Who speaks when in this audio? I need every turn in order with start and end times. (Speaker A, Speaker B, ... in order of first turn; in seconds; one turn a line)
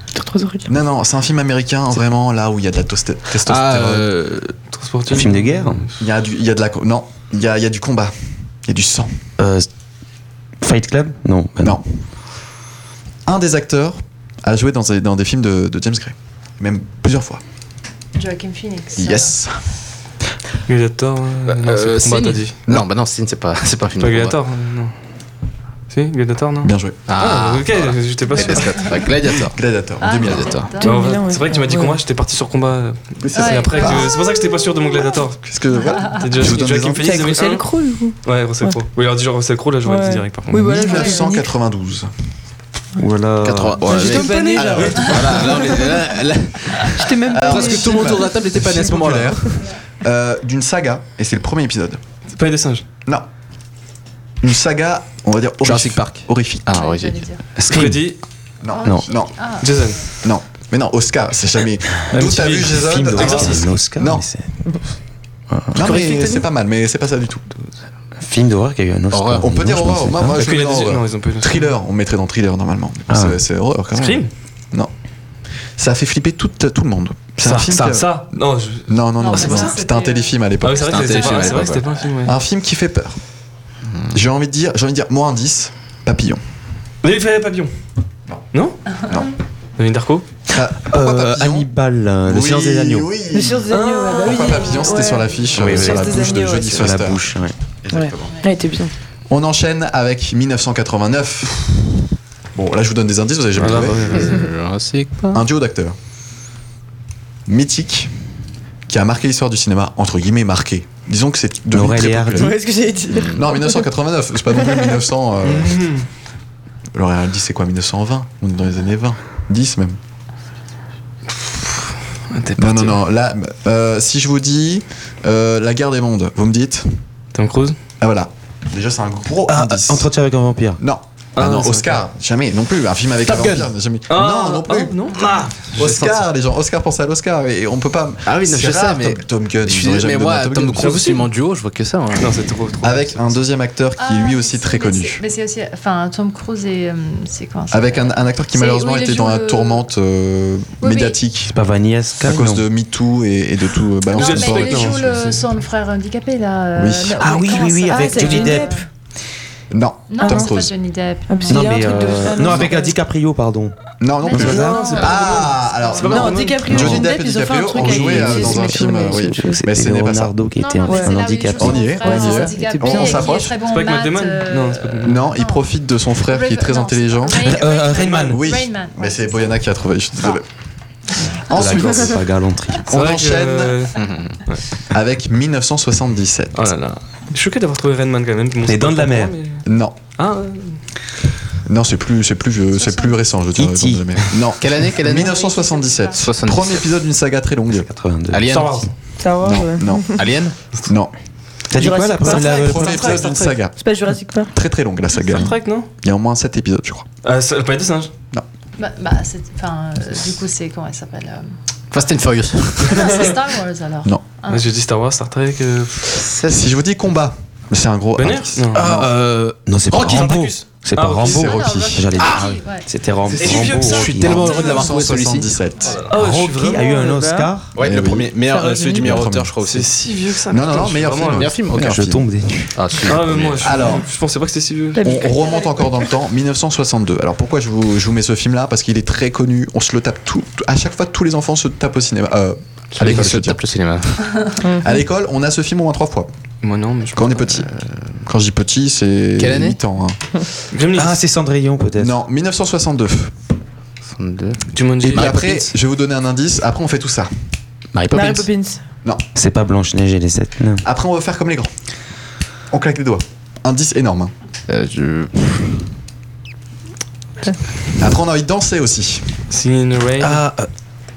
Speaker A: 0.1-0.7
Speaker B: 0.7-4.1
Speaker C: 3.4-4.5
Speaker D: 4.7-5.9
Speaker E: 5.1-5.8
Speaker B: 6.0-8.1
Speaker B: 8.7-9.1
Speaker E: 9.4-9.7
Speaker E: 10.6-11.8
Speaker B: 13.2-17.4
Speaker F: 18.1-19.4
Speaker B: 18.9-19.6
Speaker D: 20.7-22.5
Speaker C: 21.5-24.4
Speaker D: 24.0-24.9
Speaker D: 25.9-29.0
Speaker B: 26.6-27.0
Speaker C: 27.1-29.6
Speaker B: 29.3-30.6
Speaker F: 30.0-31.0
Speaker C: 30.2-30.8
Speaker A: 30.8-32.0
Speaker D: 30.8-35.4
Speaker B: 33.2-34.1
Speaker F: 33.3-35.0
Speaker B: 35.4-37.3
Speaker F: 35.9-36.2
Speaker D: 36.1-37.7
Speaker A: 37.0-38.8
Speaker D: 38.2-40.7
Speaker A: 39.8-41.5
Speaker B: 40.5-42.1
Speaker F: 40.9-41.2
Speaker E: 43.0-44.2
Speaker C: 43.4-49.7
Speaker A: 43.8-45.8
Speaker B: 44.1-45.8
Speaker A: 46.9-48.3
Speaker B: 47.3-52.0
Speaker D: 52.3-52.8
Speaker B: 54.4-56.6
Speaker C: 55.6-57.2
Speaker F: 56.7-57.4
Speaker E: 57.6-58.1
Speaker D: 57.7-58.2
Speaker B: 58.6-59.3
Speaker F: 58.7-59.9
Speaker D: 59.6-60.0
Speaker B: 60.2-64.2
Speaker D: 62.1-63.7
Speaker E: 62.7-64.5
Speaker E: 65.5-66.0
Speaker B: 65.7-67.5
Speaker E: 68.2-70.3
Speaker C: 69.1-69.5
Speaker B: 69.4-74.9
Speaker D: 70.3-71.7
Speaker E: 73.1-73.4
Speaker D: 73.9-74.3
Speaker B: 75.8-78.3
Speaker D: 77.4-79.7
Speaker B: 78.9-81.7
Speaker F: 79.2-80.3
Speaker D: 80.6-82.4
Speaker C: 80.8-82.0
Speaker B: 82.2-83.2
Speaker C: 83.9-84.2
Speaker B: 84.1-86.4
Speaker D: 87.0-87.7
Speaker D: 88.5-89.0
Speaker D: 89.8-90.2
Speaker B: 90.5-91.7
Speaker E: 90.8-93.2
Speaker B: 92.2-97.2
Speaker A: 93.3-96.9
Speaker D: 93.7-94.5
Speaker E: 95.5-97.5
Speaker B: 97.8-98.4
Speaker A: 97.9-98.9
Speaker B: 99.3-101.7
Speaker B: 102.5-104.3
Speaker D: 103.5-104.4
Speaker C: 104.0-105.4
Speaker B: 105.3-106.0
Speaker B: 107.5-108.1
Speaker B: 108.9-112.6
Speaker E: 111.7-112.5
Speaker A: 112.3-113.8
Speaker C: 113.1-113.4
Speaker B: 113.2-115.9
Speaker D: 115.5-116.0
Speaker B: 116.9-120.0
Speaker D: 122.3-123.0
Speaker B: 122.6-127.0
Speaker D: 127.3-127.8
Speaker B: 128.0-130.1
Speaker E: 129.5-130.8
Speaker B: 130.8-134.9
Speaker D: 131.3-132.0
Speaker C: 133.2-133.7
Speaker D: 134.1-135.3
Speaker C: 135.2-136.2
Speaker B: 135.7-141.1
Speaker C: 138.2-142.4
Speaker D: 140.8-141.2
Speaker D: 142.2-143.3
Speaker B: 142.8-145.2
Speaker F: 144.0-149.8
Speaker B: 147.7-151.6
Speaker F: 150.8-151.2
Speaker E: 151.5-152.6
Speaker B: 152.2-155.3
Speaker F: 154.1-158.8
Speaker D: 154.1-155.4
Speaker B: 156.7-157.2
Speaker E: 157.2-158.7
Speaker A: 157.3-158.8
Speaker B: 159.7-160.7
Speaker F: 160.1-162.3
Speaker A: 160.2-160.6
Speaker A: 161.3-162.9
Speaker E: 161.5-163.7
Speaker B: 164.0-170.3
Speaker F: 164.2-166.3
Speaker E: 164.3-164.7
Speaker D: 164.4-167.0
Speaker A: 164.4-165.3
Speaker A: 166.0-169.6
Speaker E: 167.8-172.0
Speaker F: 170.6-175.7
Speaker A: 170.8-171.2
Speaker B: 171.6-173.5
Speaker A: 171.9-173.4
Speaker D: 173.6-175.2
Speaker B: 175.0-177.7
Speaker F: 176.2-179.6
Speaker D: 177.4-178.4
Speaker B: 178.2-180.4
Speaker B: 181.3-182.3
Speaker E: 181.5-182.9
Speaker B: 182.9-183.8
Speaker D: 182.9-184.6
Speaker C: 184.0-184.4
Speaker B: 184.9-186.7
Speaker D: 186.5-189.6
Speaker E: 188.6-189.3
Speaker B: 189.6-190.0
Speaker D: 190.1-190.7
Speaker B: 191.7-197.9
Speaker F: 192.8-193.1
Speaker E: 193.6-194.2
Speaker C: 194.6-195.3
Speaker F: 195.1-196.3
Speaker C: 196.2-196.9
Speaker E: 197.7-198.9
Speaker C: 198.3-198.8
Speaker D: 198.5-198.9
Speaker A: 199.2-200.2
Speaker B: 199.4-200.2
Speaker C: 200.2-200.6
Speaker B: 200.9-201.1
Speaker E: 201.7-203.2
Speaker A: 201.7-204.5
Speaker B: 202.2-203.8
Speaker D: 202.6-203.6
Speaker B: 204.5-207.1
Speaker D: 205.2-205.9
Speaker D: 207.2-208.1
Speaker F: 208.8-211.5
Speaker C: 211.9-213.3
Speaker F: 212.8-214.7
Speaker D: 212.9-213.3
Speaker D: 214.5-216.2
Speaker C: 216.1-216.7
Speaker B: 216.4-218.8
Speaker D: 218.2-219.0
Speaker C: 218.7-220.6
Speaker E: 219.7-224.8
Speaker D: 220.1-221.5
Speaker F: 221.2-222.9
Speaker B: 221.3-222.1
Speaker C: 222.2-222.6
Speaker D: 223.3-224.2
Speaker C: 223.3-225.9
Speaker B: 224.2-226.0
Speaker F: 224.4-224.9
Speaker D: 225.9-226.8
Speaker E: 226.1-227.8
Speaker A: 226.7-227.5
Speaker C: 227.7-229.9
Speaker B: 227.8-228.3
Speaker A: 228.5-229.2
Speaker B: 229.0-229.6
Speaker D: 229.6-231.6
Speaker B: 230.4-232.2
Speaker C: 231.2-232.1
Speaker E: 231.7-232.8
Speaker C: 232.7-233.9
Speaker D: 233.0-235.1
Speaker B: 233.6-234.1
Speaker A: 234.9-235.9
Speaker B: 235.0-243.6
Speaker C: 243.0-244.6
Speaker A: 244.6-244.9
Speaker B: 244.6-246.3
Speaker D: 246.6-247.6
Speaker B: 247.1-250.2
Speaker C: 249.4-249.8
Speaker D: 250.7-251.2
Speaker E: 250.9-252.2
Speaker B: 252.0-253.3
Speaker C: 254.1-255.6
Speaker D: 254.7-255.6
Speaker B: 255.0-257.3
Speaker C: 257.9-258.5
Speaker A: 258.1-258.8
Speaker E: 259.3-260.8
Speaker B: 260.8-261.7
Speaker B: 262.7-264.3
Speaker C: 264.7-265.8
Speaker B: 268.0-269.4
Speaker D: 269.5-270.4
Speaker E: 270.2-270.7